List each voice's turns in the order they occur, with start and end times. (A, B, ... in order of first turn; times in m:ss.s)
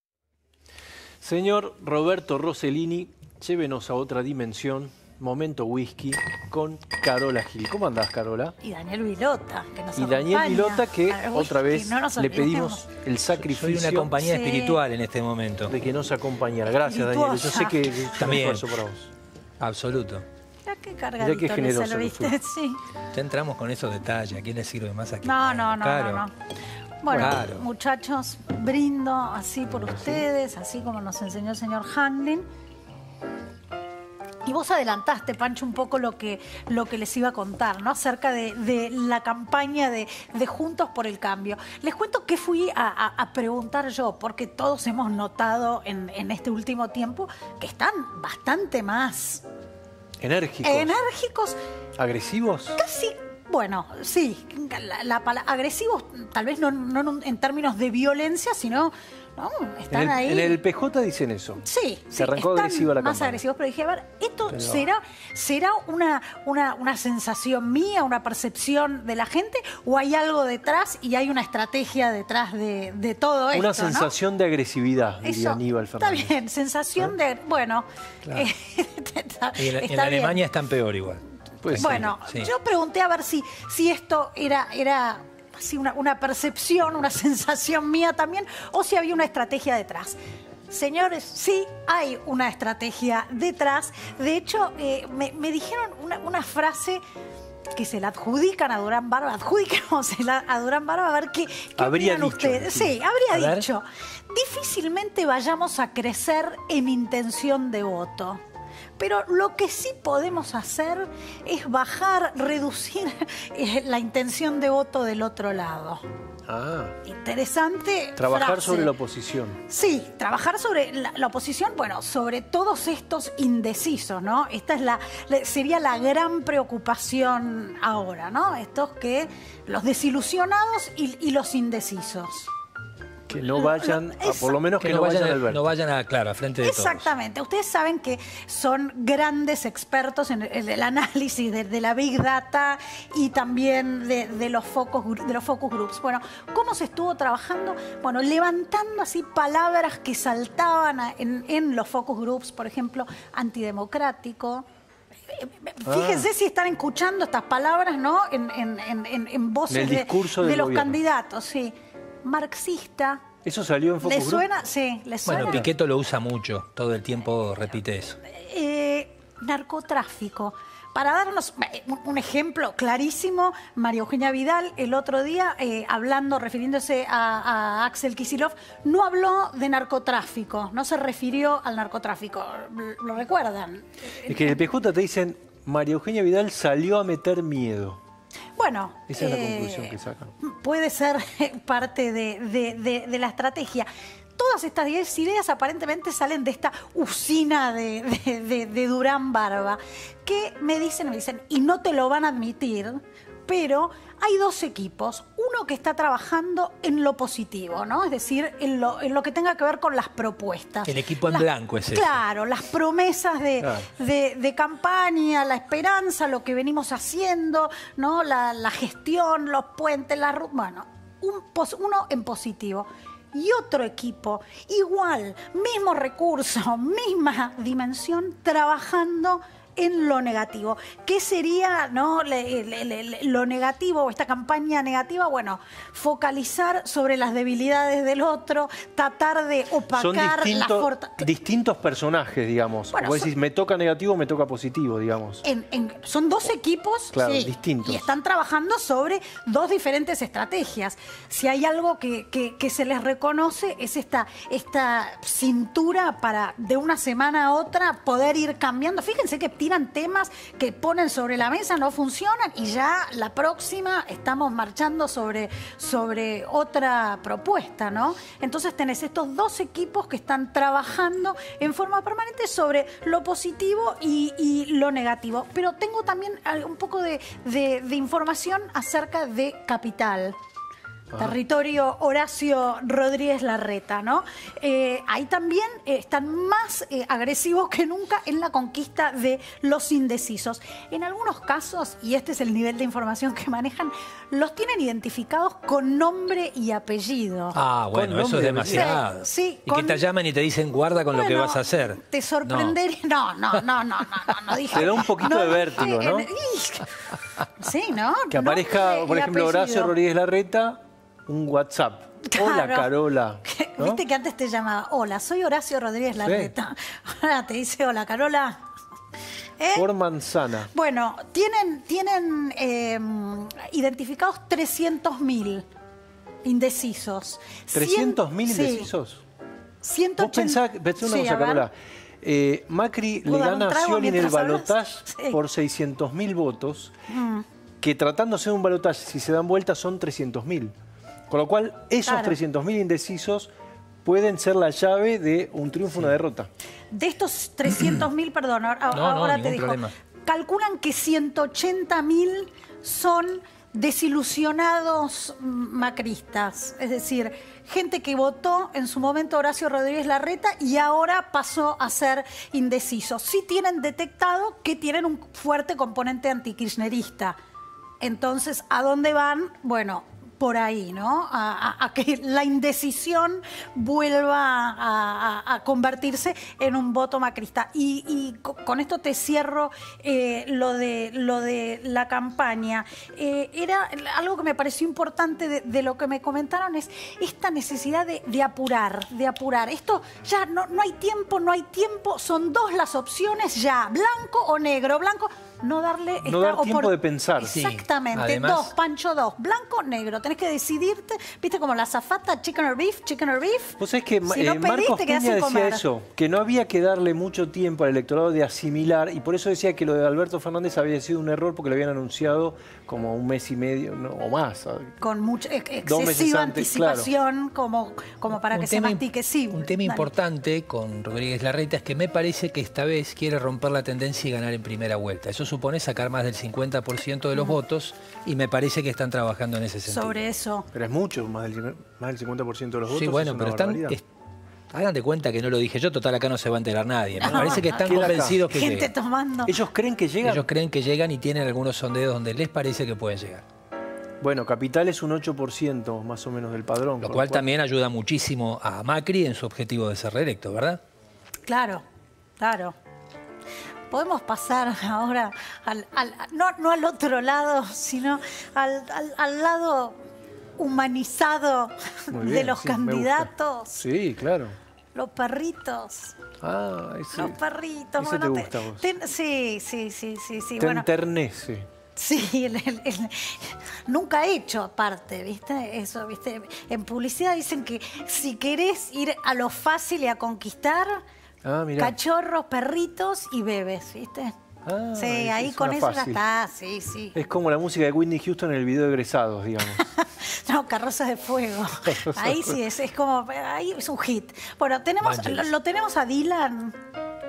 0:01.2-0:08.5 A
0:08.6-0:12.8 B
0:09.9-0:14.2 A
0:13.4-0:15.7 C
0:14.2-0:14.8 B
0:15.7-0:19.1 A
0:16.8-0:18.0 B
0:18.2-0:18.6 C
0:19.6-0:20.2 C
0:20.6-0:22.8 B
0:21.2-0:22.4 A
0:23.1-0:26.2 C
0:25.2-0:26.3 B
0:27.0-0:32.4 B
0:27.1-0:27.6 C
0:27.1-0:27.4 A
0:34.4-0:49.4 B
0:50.2-0:50.9 A
0:50.6-0:51.6 B
0:52.0-0:52.8 A
0:52.8-1:00.6 B
0:59.9-1:01.6 A
1:01.6-1:14.1 B
1:02.1-1:03.4 A
1:04.5-1:04.9 A
1:13.5-1:16.3 A
1:15.2-1:20.4 B
1:19.6-1:22.5 C
1:21.6-1:22.1 A
1:21.8-1:30.2 B
1:30.7-1:37.0 B
1:37.7-1:48.4 B
1:41.8-1:43.7 A
1:49.0-1:56.0 B
1:56.5-1:57.0 A
1:57.0-1:58.9 B
1:58.2-1:59.6 A
1:59.7-2:12.5 B
2:13.3-2:15.6 A
2:13.6-2:14.6 B
2:14.8-2:17.0 C
2:16.6-2:34.6 B
2:35.3-2:43.2 B
2:35.8-2:36.3 A
2:39.7-2:41.0 A
2:43.4-2:44.4 A
2:44.0-2:45.6 B
2:45.2-2:48.2 C
2:45.4-2:45.6 A
2:48.2-3:04.6 B
3:04.3-3:08.0 A
3:08.6-4:01.2 B
3:09.1-3:10.3 A
3:30.8-3:32.2 C
3:33.6-3:33.9 A
3:59.9-4:05.4 A
4:02.9-4:03.3 B
4:05.4-4:40.4 B
4:07.1-4:08.1 A
4:41.2-4:57.6 B
4:57.5-5:02.8 C
4:57.9-4:59.0 A
4:58.7-5:00.0 B
5:01.1-5:09.9 B
5:04.7-5:06.3 A
5:08.3-5:14.0 A
5:12.2-5:12.9 B
5:13.4-5:18.6 B
5:16.2-5:16.5 A
5:19.6-5:19.8 B
5:19.7-5:20.7 A
5:20.7-5:25.6 B
5:26.4-5:28.9 B
5:27.7-5:29.2 A
5:29.8-5:31.7 B
5:30.2-5:36.9 A
5:33.2-5:35.4 B
5:37.1-5:37.4 B
5:37.8-5:40.7 A
5:41.3-5:43.5 A
5:42.0-5:42.4 B
5:44.0-5:46.5 A
5:46.9-6:07.4 B
5:48.9-5:49.9 C
6:08.0-6:45.8 B
6:36.2-6:37.5 A
6:37.5-6:38.7 C
6:43.8-6:55.0 A
6:55.0-7:00.1 B
6:55.8-6:57.1 A
6:58.4-7:10.2 C
7:09.8-7:10.7 B
7:10.7-7:14.0 A
7:12.9-7:14.0 C
7:14.7-7:18.9 C
7:17.2-7:19.5 B
7:17.2-7:18.4 A
7:19.4-7:20.4 A
7:20.2-7:23.4 C
7:24.2-7:27.4 A
7:27.0-7:30.8 C
7:31.5-7:31.8 B
7:32.4-7:32.7 B
7:33.9-7:40.0 B
7:40.6-7:43.8 B
7:42.1-7:44.6 A
7:44.9-7:46.1 B
7:46.4-7:47.4 A
7:47.1-7:50.9 B
7:48.0-7:48.9 A
7:50.6-7:51.7 A
7:52.0-8:01.0 B
8:01.4-8:02.0 A
8:01.8-8:04.3 B
8:04.6-8:06.2 A
8:04.9-8:07.2 B
8:07.1-8:09.8 A
8:09.7-8:16.8 B
8:11.8-8:12.6 A
8:15.0-8:15.5 C